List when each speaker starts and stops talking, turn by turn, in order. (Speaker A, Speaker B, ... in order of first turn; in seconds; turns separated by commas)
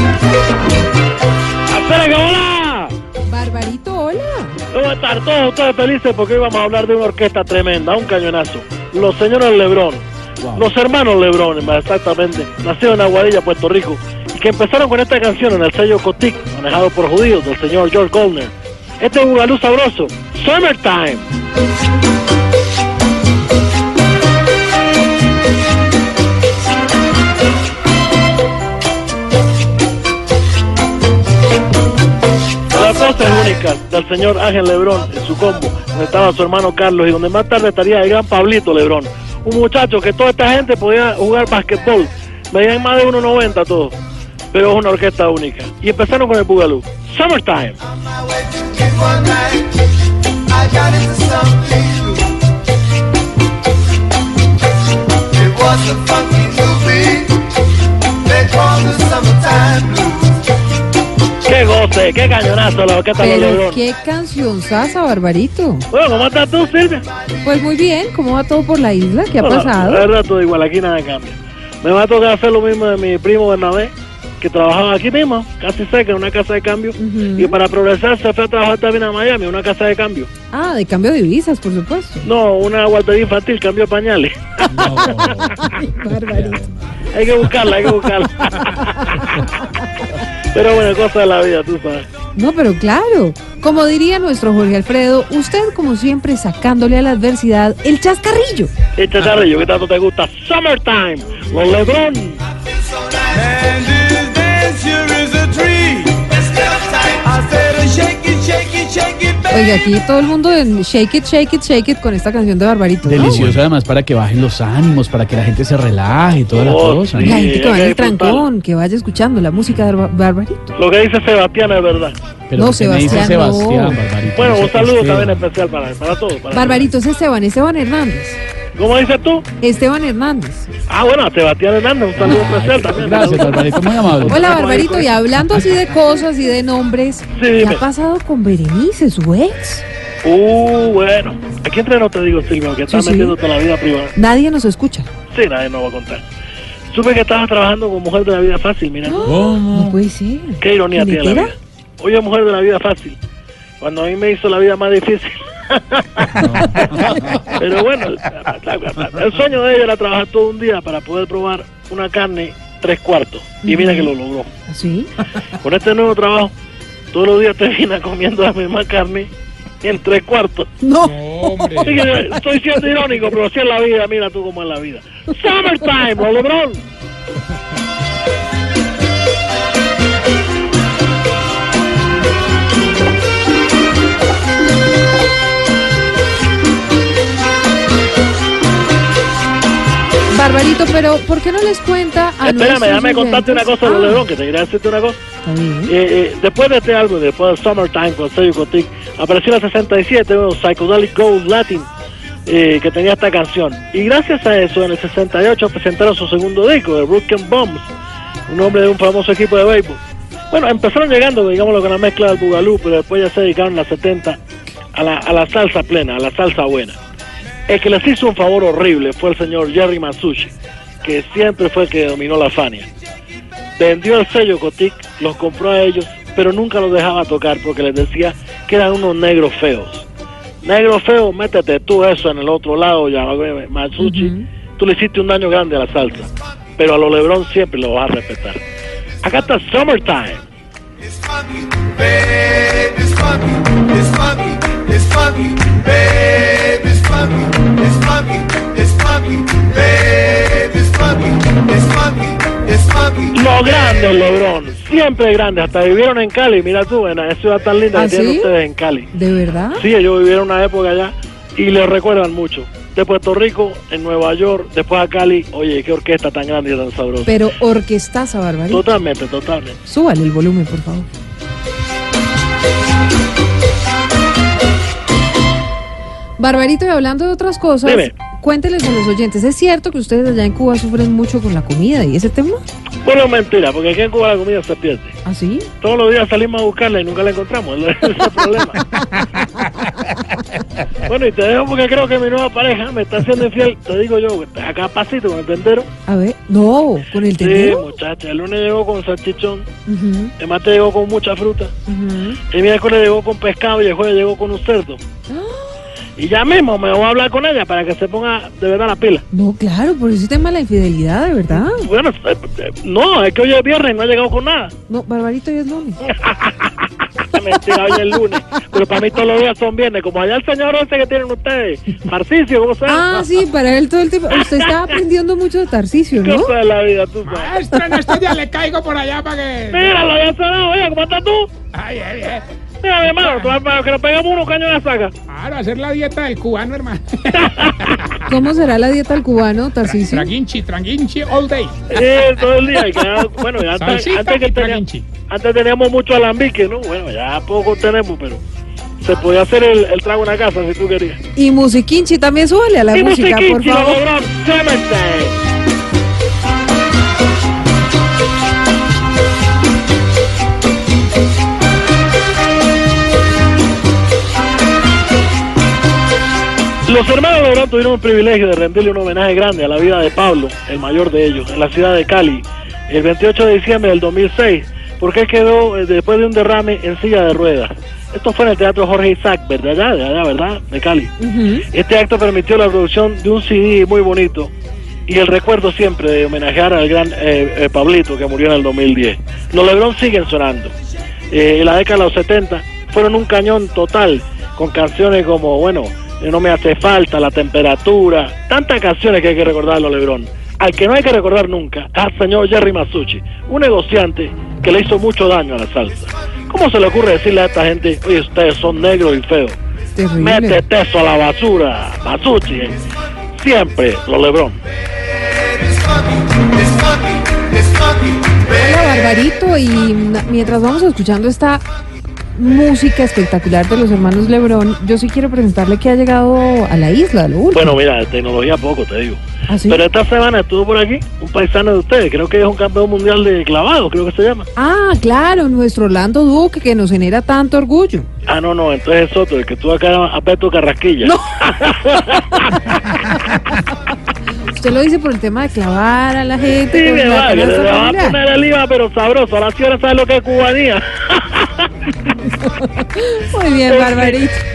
Speaker A: 1.7-2.9, Speaker B: 3.2-4.6, Speaker A: 4.7-21.3, Speaker A: 32.7-44.0, Speaker A: 44.5-47.8, Speaker C: 48.4-49.7, Speaker A: 48.7-49.5, Speaker C: 50.5-52.2, Speaker A: 50.9-52.1, Speaker A: 55.4-57.2, Speaker C: 55.5-57.5, Speaker A: 58.3-60.1, Speaker C: 58.3-60.3, Speaker A: 61.4-63.8, Speaker B: 63.2-65.9, Speaker A: 65.9-67.0, Speaker B: 67.4-70.1, Speaker A: 69.4-80.3, Speaker B: 77.0-77.6, Speaker B: 80.5-82.3, Speaker A: 82.2-84.9, Speaker D: 84.7-87.0, Speaker B: 84.8-86.6, Speaker A: 87.1-89.1, Speaker B: 88.8-89.7, Speaker A: 90.5-92.1, Speaker B: 92.3-98.7, Speaker A: 99.0-102.4, Speaker C: 103.0-109.5, Speaker B: 109.5-113.5, Speaker D: 113.0-117.4, Speaker A: 116.5-118.5, Speaker B: 117.2-120.7, Speaker A: 120.8-122.2, Speaker D: 122.5-125.4, Speaker B: 122.5-124.0, Speaker A: 124.3-126.9, Speaker B: 126.5-128.4, Speaker A: 128.8-129.4, Speaker B: 129.6-130.7, Speaker A: 130.9-135.1, Speaker D: 132.2-134.5, Speaker B: 134.2-139.8, Speaker A: 137.3-137.8, Speaker A: 140.2-144.1, Speaker B: 142.9-143.4, Speaker B: 144.1-145.1, Speaker A: 145.3-146.2, Speaker A: 146.9-149.4, Speaker B: 149.1-151.5, Speaker D: 149.3-150.0, Speaker A: 150.6-153.2, Speaker A: 153.8-164.5, Speaker D: 156.4-157.3, Speaker B: 156.6-156.9, Speaker B: 163.6-164.1, Speaker B: 164.7-165.1, Speaker A: 165.6-166.5, Speaker A: 167.1-169.3, Speaker A: 169.8-170.7, Speaker B: 170.8-172.1, Speaker E: 171.0-172.2, Speaker A: 171.8-176.8, Speaker B: 190.3-194.2, Speaker A: 192.4-195.2, Speaker B: 195.4-195.9, Speaker A: 195.9-201.9, Speaker A: 202.5-207.9, Speaker A: 208.5-214.4, Speaker A: 214.9-217.0, Speaker A: 217.7-220.5, Speaker A: 221.0-222.9, Speaker A: 223.8-230.1, Speaker A: 230.6-238.6, Speaker B: 234.0-234.4, Speaker A: 239.2-240.4, Speaker C: 242.1-242.6, Speaker A: 242.5-243.3, Speaker A: 244.1-245.9, Speaker C: 245.4-248.6, Speaker A: 246.6-247.0, Speaker A: 248.7-251.2, Speaker C: 249.3-252.3, Speaker A: 252.8-259.1, Speaker B: 257.9-258.5, Speaker B: 259.1-259.8, Speaker A: 259.8-267.3, Speaker B: 267.2-268.9, Speaker A: 268.7-269.8, Speaker B: 269.8-271.1, Speaker B: 276.4-282.6, Speaker A: 277.8-278.1, Speaker A: 283.0-285.2, Speaker B: 285.2-285.7, Speaker A: 285.8-288.8, Speaker A: 291.0-295.9, Speaker B: 296.1-297.9, Speaker A: 297.4-299.7, Speaker B: 299.9-300.3, Speaker A: 300.4-301.7, Speaker B: 301.9-302.4, Speaker A: 302.5-305.0, Speaker B: 305.3-305.8, Speaker A: 306.2-309.2, Speaker B: 309.3-311.9, Speaker A: 311.5-314.7, Speaker B: 314.9-316.0, Speaker A: 316.1-316.7, Speaker A: 317.2-323.3, Speaker B: 322.9-326.5, Speaker A: 324.3-325.0, Speaker A: 326.1-327.6, Speaker E: 327.2-330.0, Speaker B: 327.7-328.2, Speaker A: 329.7-331.5, Speaker E: 331.7-332.4, Speaker A: 332.8-335.1, Speaker E: 335.3-338.2, Speaker A: 337.4-337.8, Speaker B: 338.2-340.3, Speaker E: 340.0-341.9, Speaker A: 341.9-348.4, Speaker E: 343.6-345.1, Speaker A: 349.0-351.2, Speaker B: 351.4-354.0, Speaker A: 352.9-355.4, Speaker A: 366.9-381.1, Speaker B: 381.2-381.6, Speaker A: 381.7-384.5, Speaker A: 385.1-390.7, Speaker A: 391.3-409.6, Speaker B: 409.9-410.6, Speaker A: 410.2-412.8, Speaker A: 413.3-414.6, Speaker A: 416.6-418.1, Speaker B: 418.5-421.6, Speaker B: 422.3-427.8, Speaker A: 427.5-434.5, Speaker B: 429.5-429.8, Speaker B: 434.6-438.1, Speaker A: 438.2-442.8, Speaker B: 441.0-443.6, Speaker B: 444.4-448.2, Speaker A: 446.7-451.7, Speaker B: 452.5-454.4, Speaker A: 453.7-454.2